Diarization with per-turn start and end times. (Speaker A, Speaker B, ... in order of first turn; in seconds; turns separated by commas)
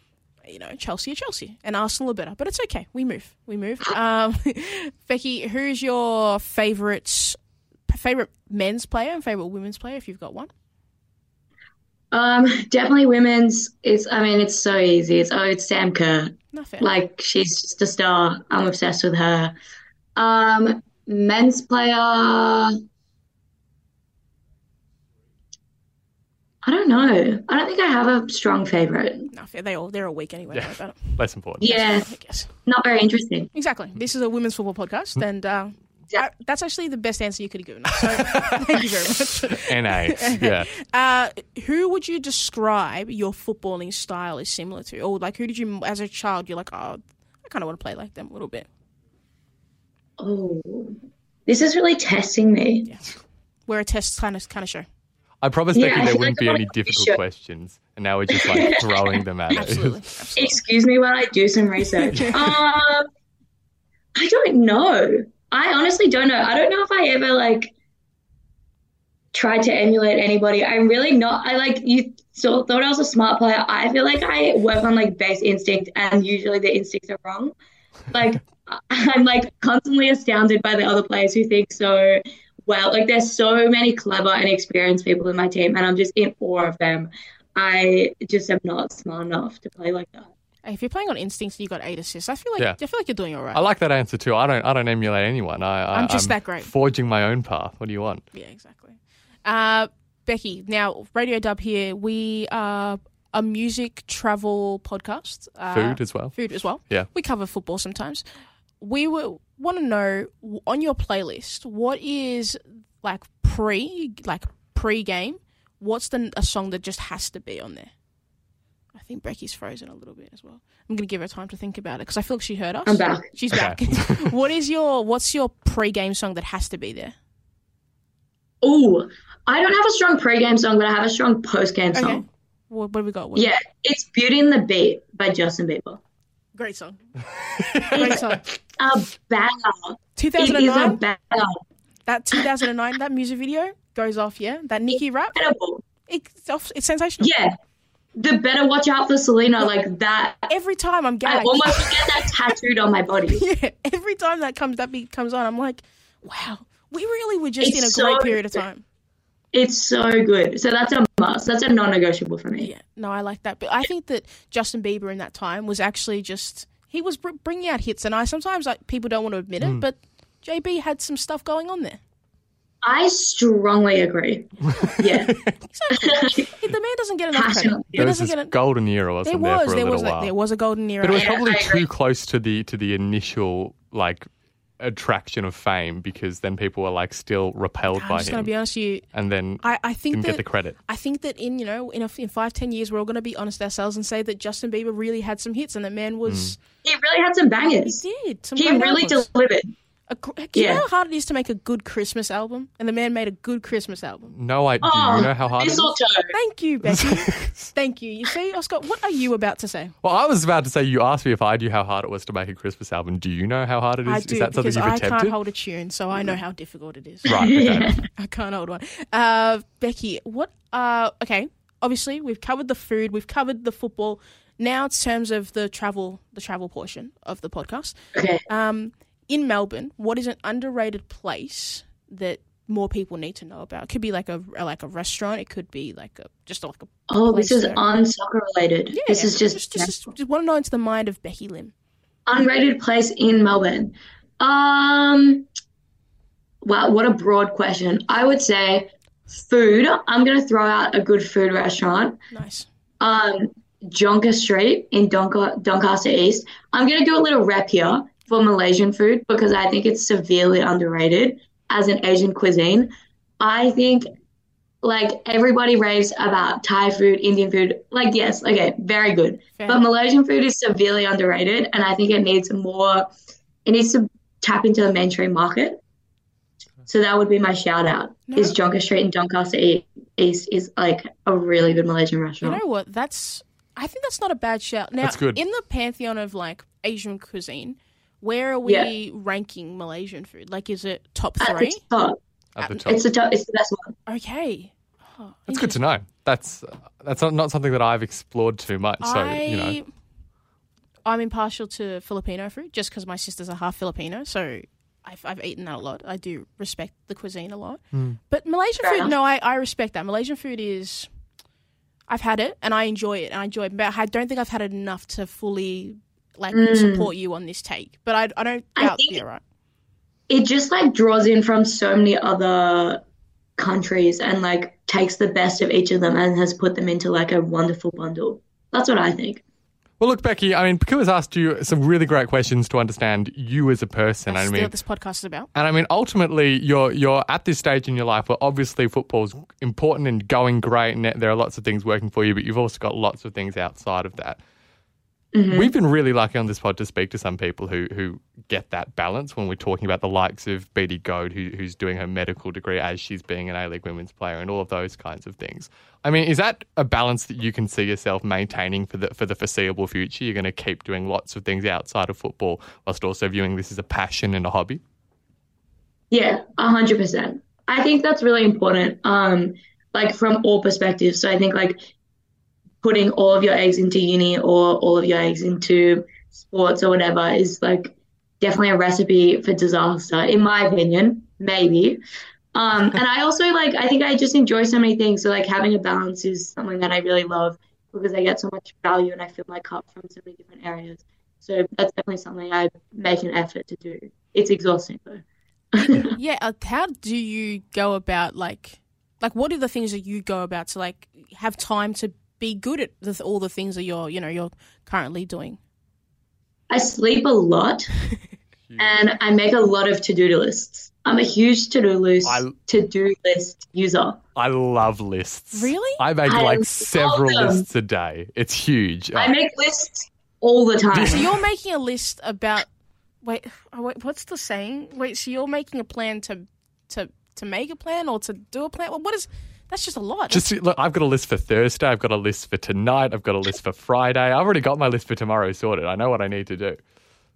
Speaker A: 0.5-7.4, Speaker A: 7.9-10.5, Speaker B: 12.1-19.6, Speaker A: 16.5-16.9, Speaker B: 20.2-22.7, Speaker B: 26.6-29.3, Speaker A: 29.3-32.5, Speaker C: 30.5-31.8, Speaker B: 31.6-32.1, Speaker B: 32.7-33.5, Speaker A: 33.5-48.7, Speaker C: 38.1-38.6, Speaker C: 39.5-40.7, Speaker B: 50.2-52.9, Speaker A: 53.7-54.9, Speaker C: 55.4-60.0, Speaker B: 55.8-57.2, Speaker B: 58.3-59.7, Speaker A: 59.5-60.6, Speaker B: 60.4-63.1, Speaker B: 64.2-67.7, Speaker B: 69.3-77.5, Speaker B: 78.1-90.3, Speaker A: 90.7-93.6, Speaker C: 93.5-98.2, Speaker A: 95.9-96.7, Speaker A: 98.3-108.2, Speaker C: 105.7-106.4, Speaker A: 108.8-117.9, Speaker A: 119.0-127.2, Speaker B: 122.9-123.3, Speaker C: 123.5-124.3, Speaker B: 128.6-132.2, Speaker A: 131.9-133.5, Speaker B: 133.4-136.0, Speaker A: 136.6-137.0, Speaker C: 137.6-138.2, Speaker A: 137.7-138.4, Speaker B: 137.9-138.3, Speaker B: 138.8-141.6, Speaker A: 140.2-141.0, Speaker A: 142.1-145.4, Speaker B: 145.3-145.8, Speaker A: 146.1-147.3, Speaker B: 147.2-147.5, Speaker B: 148.2-150.5, Speaker A: 150.5-152.3, Speaker B: 151.2-153.4, Speaker A: 153.3-158.8, Speaker B: 157.6-158.6, Speaker B: 159.5-162.7, Speaker A: 162.6-172.0, Speaker B: 172.8-175.4, Speaker C: 174.7-175.6, Speaker A: 174.7-175.0, Speaker A: 175.6-178.6, Speaker B: 176.0-176.5, Speaker B: 177.3-178.1, Speaker C: 178.0-180.3, Speaker A: 179.2-181.4, Speaker C: 181.0-184.3, Speaker B: 181.2-181.8, Speaker C: 184.8-188.5, Speaker A: 187.9-189.1, Speaker C: 189.1-190.8, Speaker A: 189.6-196.6, Speaker C: 196.3-196.5, Speaker B: 196.8-198.0, Speaker A: 197.8-199.3, Speaker B: 198.6-199.7, Speaker A: 200.1-204.3, Speaker B: 200.6-200.8, Speaker C: 204.3-205.9, Speaker B: 204.8-206.3, Speaker A: 206.3-209.9, Speaker C: 206.9-207.7, Speaker C: 210.0-215.4, Speaker A: 214.1-217.3, Speaker C: 217.3-218.0, Speaker B: 217.3-218.1, Speaker A: 218.2-228.0, Speaker B: 228.1-228.4, Speaker A: 228.5-237.8, Speaker B: 237.1-239.9, Speaker A: 238.9-241.7, Speaker B: 242.3-245.5, Speaker B: 246.6-252.2, Speaker A: 252.3-252.7, Speaker B: 253.0-264.1, Speaker B: 264.8-273.1, Speaker A: 269.6-269.9, Speaker B: 273.7-275.8, Speaker B: 276.9-282.6, Speaker A: 278.3-278.6, Speaker A: 282.4-291.8, Speaker C: 285.0-285.4, Speaker B: 288.6-288.9, Speaker B: 291.4-292.2, Speaker C: 292.6-293.0, Speaker B: 292.9-293.9, Speaker A: 294.1-295.8, Speaker C: 295.5-299.8, Speaker A: 299.0-299.9, Speaker A: 301.1-311.1, Speaker C: 307.9-308.2, Speaker B: 308.8-309.1, Speaker A: 312.1-319.4, Speaker B: 316.5-317.1, Speaker B: 318.8-319.2, Speaker B: 320.3-323.0, Speaker B: 323.6-329.4, Speaker C: 330.0-334.7, Speaker A: 334.3-335.5, Speaker C: 335.6-344.4, Speaker B: 345.3-345.7, Speaker C: 345.5-364.8, Speaker B: 366.1-371.8, Speaker B: 372.8-382.0, Speaker B: 382.5-396.2, Speaker A: 396.1-405.6, Speaker B: 406.7-407.9, Speaker C: 408.7-409.0, Speaker B: 408.8-414.2, Speaker C: 412.2-412.6, Speaker C: 414.4-419.3, Speaker A: 415.5-416.0, Speaker B: 416.3-417.7, Speaker B: 419.1-421.3, Speaker C: 420.9-421.2, Speaker A: 421.0-422.7, Speaker A: 423.2-430.5, Speaker C: 430.3-436.8